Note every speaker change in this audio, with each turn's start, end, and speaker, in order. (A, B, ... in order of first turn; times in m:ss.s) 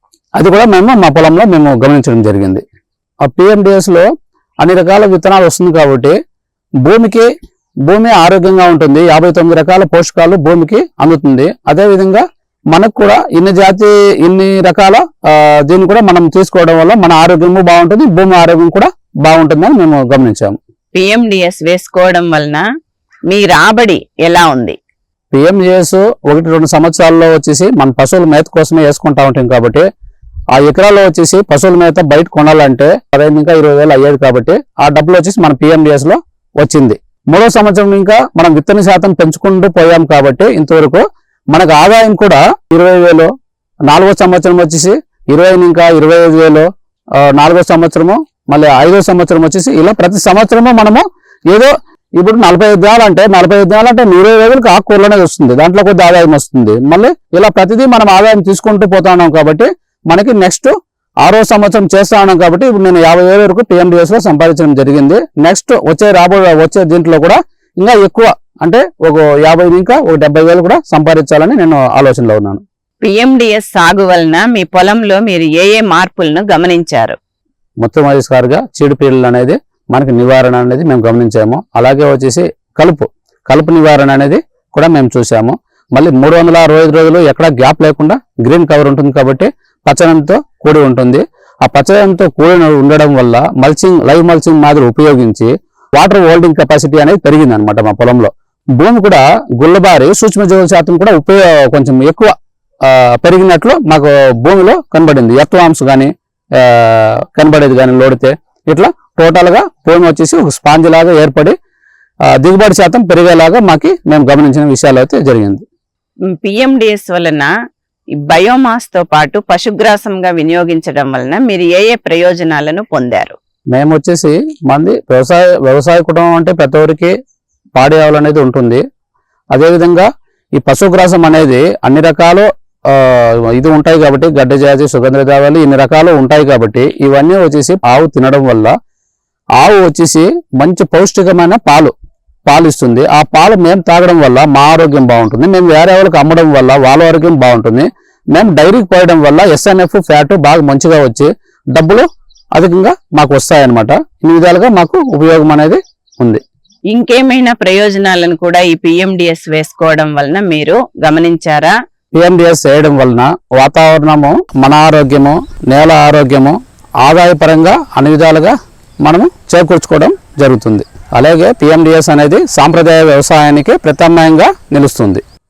0:00.4-0:02.6 A
0:03.2-0:04.1 A
0:04.6-0:06.2 A
0:06.8-0:07.3 A
0:07.8-0:20.6 A
0:20.9-0:22.6 B
0:23.3-0:24.8 B
0:25.3-0:29.8 A
0:30.5-0:43.3 A
0:43.9-0:46.7 A
0:47.2-1:12.6 A
1:13.0-1:17.2 B
1:17.8-1:42.3 A
1:42.8-1:51.5 A
1:52.3-1:55.6 A
1:56.3-1:57.5 B
1:58.2-2:03.4 B
2:03.7-2:07.1 A
2:07.8-2:08.8 A
2:09.5-2:18.7 A
2:19.6-2:21.9 A
2:22.5-2:36.4 A
2:36.9-2:41.7 B
2:42.1-2:55.2 A